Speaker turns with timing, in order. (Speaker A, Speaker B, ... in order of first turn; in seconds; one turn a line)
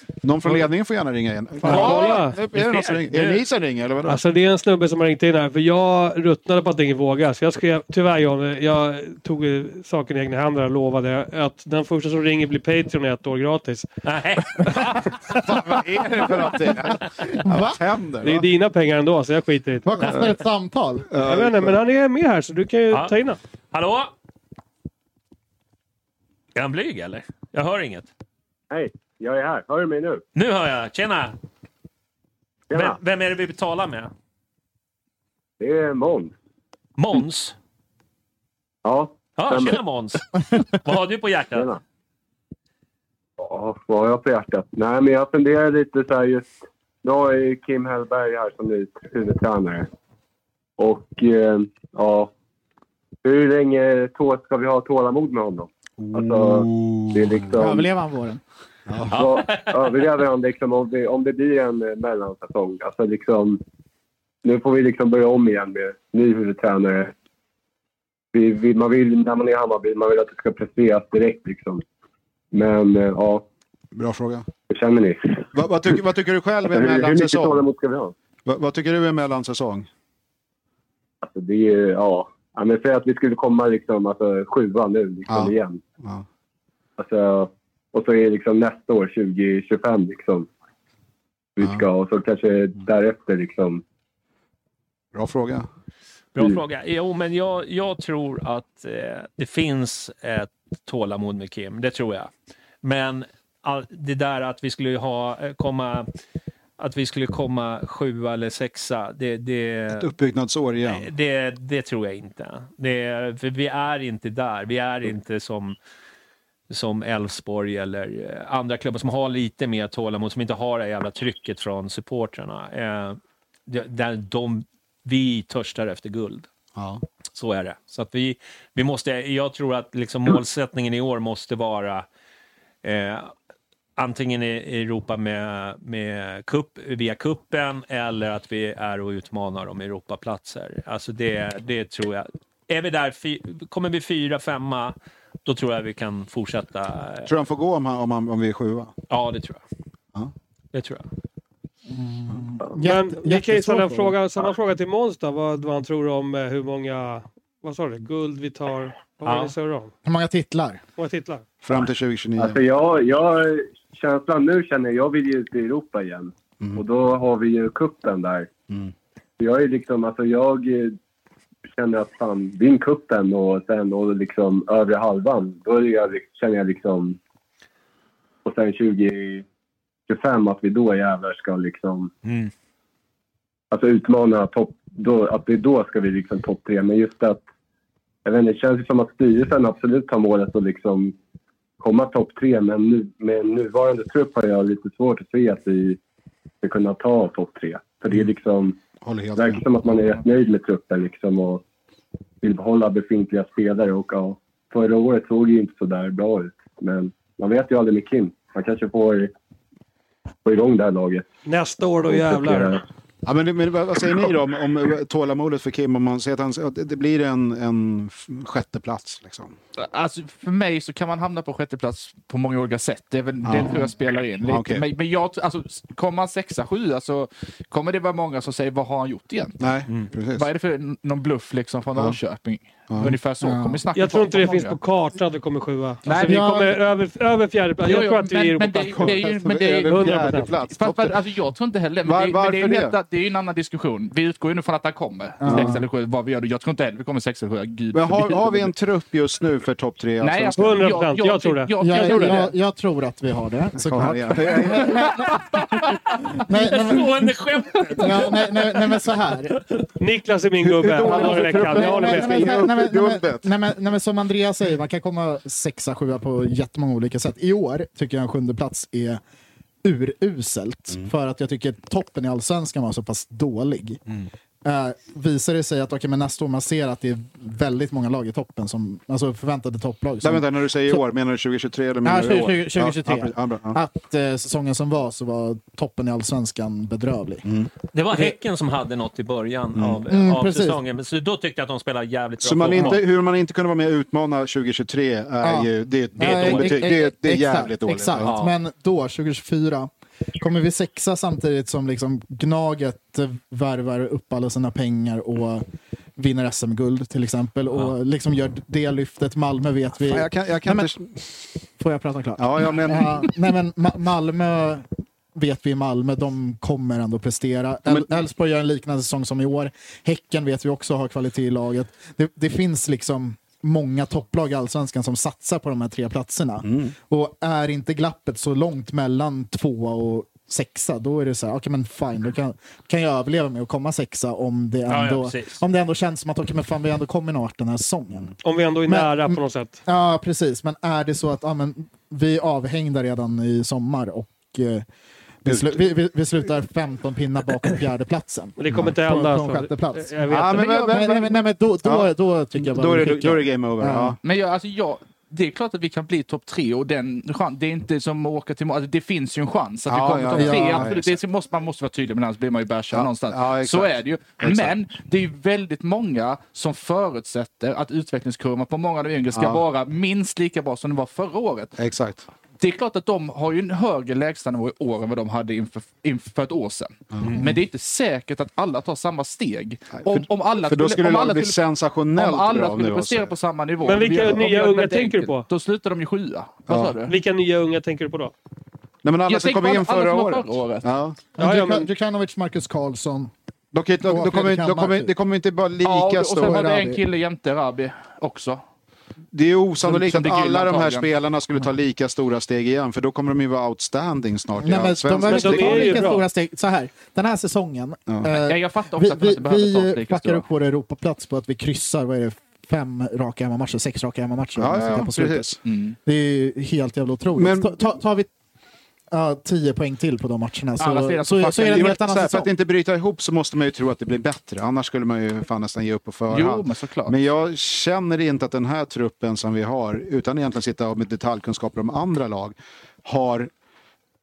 Speaker A: 0.2-4.2
Speaker B: 1.6-2.4
Speaker C: 1.6-3.4
Speaker B: 4.0-13.9
Speaker C: 14.0-15.1
Speaker A: 15.3-18.4
Speaker D: 17.4-17.8
Speaker B: 18.2-19.9
Speaker D: 19.8-21.1
Speaker A: 21.1-21.7
Speaker B: 21.2-23.4
Speaker C: 23.7-24.1
Speaker C: 26.5-28.1
Speaker E: 28.7-30.2
Speaker C: 30.3-31.4
Speaker E: 32.7-33.0
Speaker C: 32.7-34.1
Speaker E: 35.6-36.3
Speaker C: 37.0-37.5
Speaker E: 38.8-39.8
Speaker C: 39.4-41.7
Speaker E: 41.5-41.8
Speaker E: 43.4-46.5
Speaker E: 47.0-49.9
Speaker E: 50.8-52.3
Speaker E: 53.2-57.9
Speaker A: 56.0-57.7
Speaker D: 57.6-58.4
Speaker A: 58.9-59.2
Speaker C: 59.1-59.9
Speaker E: 59.1-63.6
Speaker E: 64.4-67.1
Speaker E: 68.3-71.8
Speaker E: 72.5-73.5
Speaker A: 73.9-74.5
Speaker E: 74.7-75.5
Speaker A: 75.5-77.6
Speaker E: 76.7-78.1
Speaker A: 78.4-79.9
Speaker E: 81.2-85.8
Speaker A: 85.3-86.2
Speaker E: 87.0-90.5
Speaker E: 91.6-93.8
Speaker A: 95.1-95.7
Speaker C: 96.3-102.3
Speaker C: 102.8-106.1
Speaker C: 106.8-110.1
Speaker A: 109.9-111.1
Speaker C: 110.9-115.8
Speaker C: 116.7-126.5
Speaker A: 126.8-127.0
Speaker C: 127.3-132.1
Speaker C: 132.8-133.3
Speaker C: 134.0-147.3
Speaker A: 147.2-148.9
Speaker C: 149.1-149.6
Speaker C: 150.7-151.0
Speaker D: 151.9-154.1
Speaker B: 152.8-159.9
Speaker C: 159.2-159.5
Speaker D: 160.0-160.8
Speaker B: 161.0-161.4
Speaker A: 161.6-162.6
Speaker E: 162.4-168.5
Speaker E: 169.4-170.9
Speaker E: 171.7-177.2
Speaker E: 178.4-179.4
Speaker E: 180.1-182.1
Speaker C: 182.2-182.5
Speaker E: 183.7-187.4
Speaker E: 188.2-191.2
Speaker E: 191.8-196.0
Speaker E: 196.6-198.8
Speaker A: 199.0-200.2
Speaker E: 199.3-201.6
Speaker E: 202.4-209.3
Speaker E: 210.4-211.2
Speaker B: 211.4-212.8
Speaker E: 212.1-212.8
Speaker A: 213.2-219.5
Speaker F: 219.8-229.6
Speaker A: 223.4-223.9
Speaker A: 224.4-224.8
Speaker A: 229.6-230.4
Speaker F: 230.3-234.8
Speaker A: 232.9-233.1
Speaker D: 233.4-233.8
Speaker B: 233.9-240.6
Speaker F: 236.0-236.8
Speaker D: 236.2-236.7
Speaker F: 237.8-248.7
Speaker A: 238.8-241.2
Speaker A: 242.0-242.9
Speaker D: 245.4-245.8
Speaker A: 245.4-245.8
Speaker A: 247.9-250.9
Speaker F: 250.2-252.5
Speaker B: 250.6-252.4
Speaker D: 251.8-255.6
Speaker A: 253.8-255.6
Speaker D: 256.3-257.4
Speaker C: 256.5-258.3
Speaker D: 257.9-259.6
Speaker B: 260.0-262.5
Speaker A: 260.6-263.5
Speaker D: 261.0-269.2
Speaker D: 269.8-274.0
Speaker D: 274.6-281.0
Speaker A: 280.2-283.8
Speaker D: 282.0-287.4
Speaker A: 287.4-287.7
Speaker C: 287.9-293.0
Speaker A: 289.8-290.0
Speaker D: 290.1-290.8
Speaker A: 292.4-298.3
Speaker D: 295.4-305.6
Speaker C: 296.2-296.7
Speaker C: 298.2-298.5
Speaker D: 306.2-310.9
Speaker A: 310.0-311.1
Speaker D: 311.8-338.3
Speaker A: 312.4-313.3
Speaker A: 326.6-326.9
Speaker C: 334.9-335.6
Speaker B: 338.4-339.8
Speaker D: 338.9-344.9
Speaker D: 345.4-354.2
Speaker A: 345.5-345.8
Speaker B: 348.6-350.9
Speaker A: 350.3-354.2
Speaker F: 354.2-371.8
Speaker A: 359.9-361.1
Speaker D: 360.3-360.9
Speaker A: 362.9-364.8
Speaker A: 369.3-369.6
Speaker A: 371.8-372.2
Speaker F: 372.6-381.6
Speaker A: 377.1-377.4
Speaker A: 380.0-383.3
Speaker F: 382.1-387.1
Speaker B: 383.8-385.4
Speaker A: 386.7-387.0
Speaker B: 387.1-388.3
Speaker A: 389.0-391.3
Speaker F: 389.3-390.9
Speaker B: 391.4-391.9
Speaker D: 391.4-393.3
Speaker A: 393.7-396.6
Speaker D: 394.0-395.1
Speaker F: 395.8-398.6
Speaker D: 396.4-397.0
Speaker A: 399.3-406.1
Speaker F: 399.8-401.1
Speaker D: 404.6-418.3
Speaker B: 405.2-406.2
Speaker F: 408.3-410.4
Speaker A: 414.6-415.6
Speaker F: 415.6-415.9
Speaker A: 417.4-417.7
Speaker D: 419.1-422.5
Speaker F: 420.8-422.0
Speaker A: 421.6-433.5
Speaker F: 426.3-427.1